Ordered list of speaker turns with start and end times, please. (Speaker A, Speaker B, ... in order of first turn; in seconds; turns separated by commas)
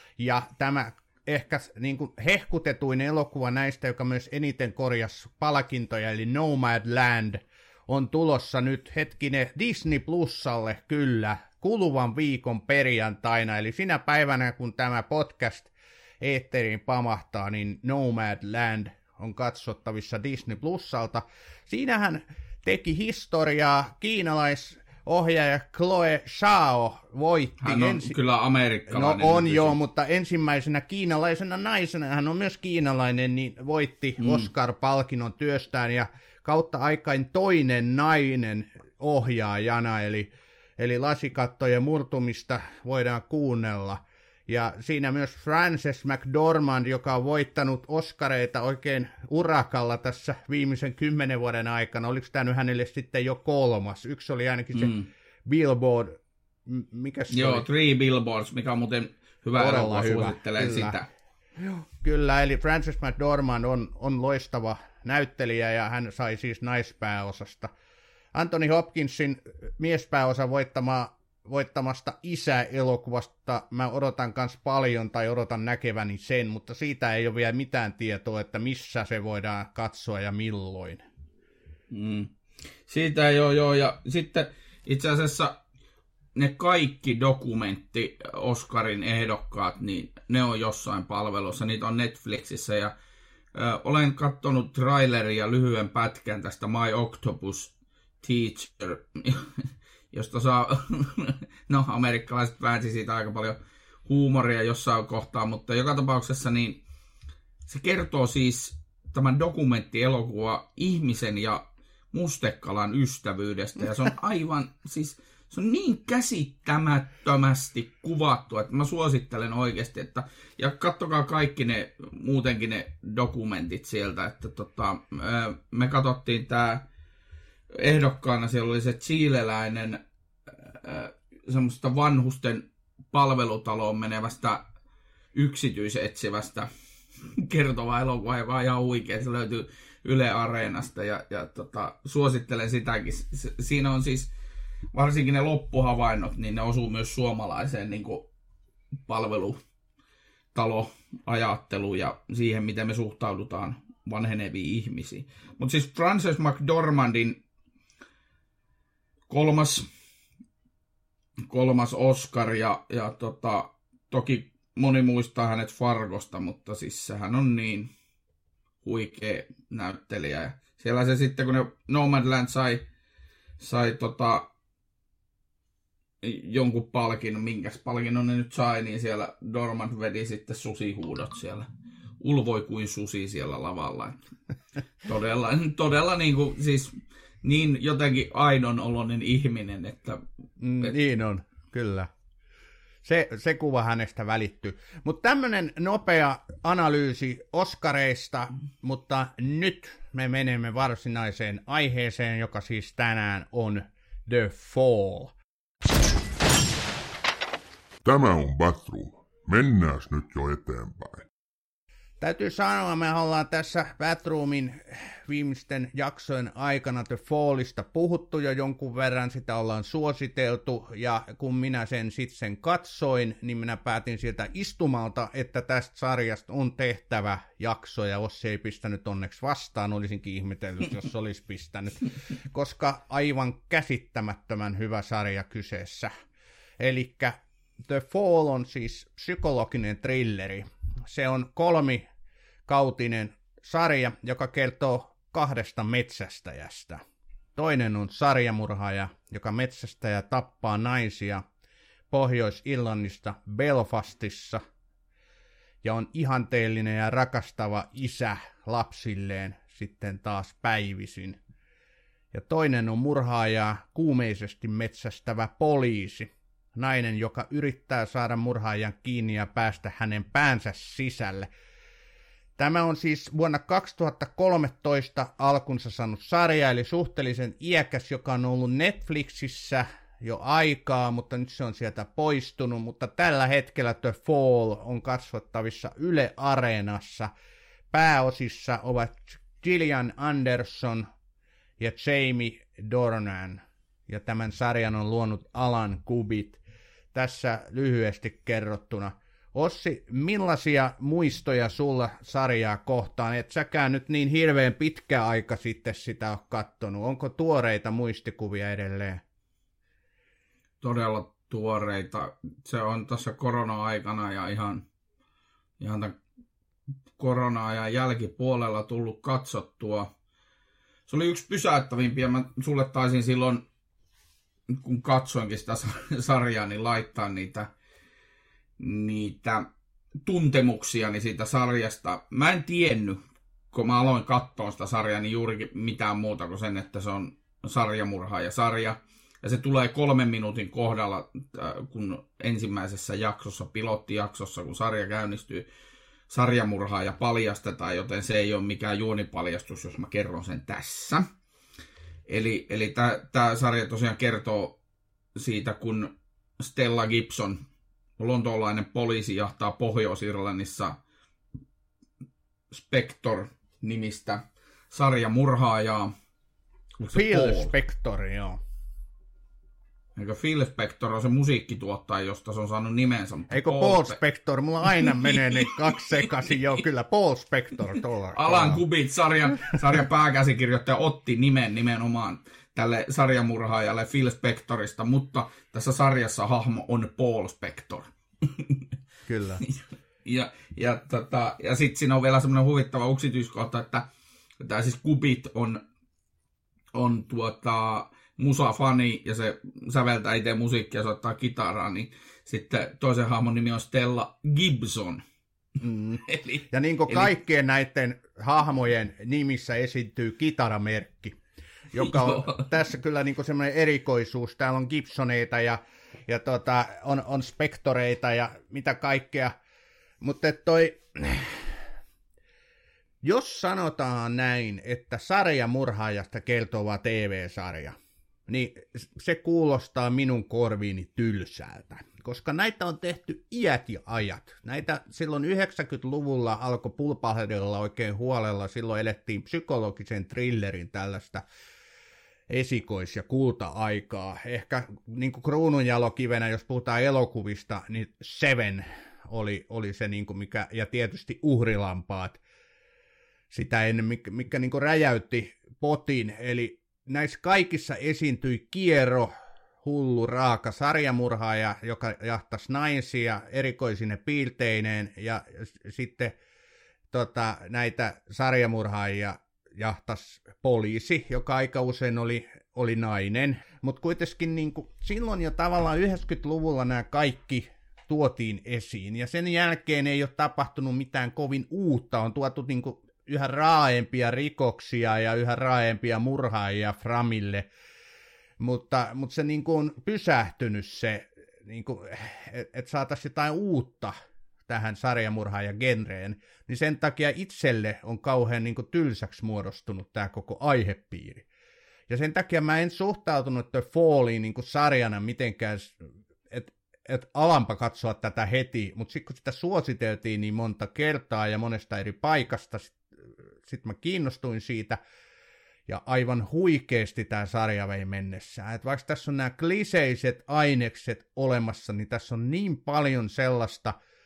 Speaker A: 0.2-28.1, Speaker B: 27.6-29.8, Speaker A: 28.9-55.0, Speaker B: 34.2-34.5, Speaker B: 54.7-55.1, Speaker A: 55.5-57.7, Speaker B: 57.3-61.1, Speaker A: 59.6-61.0, Speaker A: 61.6-67.7, Speaker A: 68.3-81.0, Speaker B: 81.9-82.3, Speaker B: 82.9-85.6, Speaker B: 86.3-92.9, Speaker B: 93.5-106.8, Speaker B: 107.7-126.9, Speaker B: 127.7-130.0, Speaker B: 130.6-134.7, Speaker B: 135.3-136.7, Speaker B: 137.3-144.3, Speaker B: 144.9-148.3, Speaker B: 149.1-149.6, Speaker B: 150.5-157.4, Speaker B: 159.3-159.9, Speaker B: 161.5-167.9, Speaker B: 168.8-172.8, Speaker B: 173.6-174.5, Speaker B: 176.2-181.7, Speaker B: 182.2-184.2, Speaker B: 185.0-190.2, Speaker A: 190.6-192.1, Speaker A: 193.0-205.3, Speaker C: 208.0-211.3, Speaker A: 212.2-236.1, Speaker A: 236.8-242.0, Speaker A: 242.7-247.0, Speaker A: 247.6-251.4, Speaker A: 252.1-254.6, Speaker A: 255.8-261.4, Speaker A: 262.3-271.5, Speaker A: 272.6-287.3, Speaker A: 287.9-291.1, Speaker A: 291.8-296.6, Speaker A: 297.1-309.2, Speaker B: 310.8-314.9, Speaker B: 315.8-316.2, Speaker B: 317.2-320.1, Speaker B: 321.1-323.6, Speaker B: 324.7-327.7, Speaker B: 328.8-329.7, Speaker B: 330.2-333.2, Speaker B: 333.7-345.7, Speaker B: 346.3-351.3, Speaker B: 352.3-354.8, Speaker B: 355.4-357.6, Speaker B: 358.2-361.0, Speaker B: 362.7-366.1, Speaker B: 367.0-367.7, Speaker A: 367.1-368.6, Speaker B: 370.2-374.2, Speaker A: 373.5-378.8, Speaker B: 374.9-376.3, Speaker B: 378.3-388.8, Speaker A: 389.3-389.6, Speaker B: 389.6-394.1, Speaker B: 394.6-395.8, Speaker B: 396.9-405.2, Speaker A: 405.8-411.4, Speaker B: 406.3-407.3, Speaker A: 411.9-419.5, Speaker B: 412.0-412.7, Speaker A: 420.2-421.8, Speaker A: 423.2-441.4, Speaker A: 442.5-452.4, Speaker A: 453.5-459.3, Speaker A: 459.8-466.4, Speaker A: 467.1-487.7, Speaker A: 488.6-494.1, Speaker A: 494.7-501.5, Speaker A: 502.1-513.0, Speaker A: 513.6-515.0, Speaker A: 515.9-524.0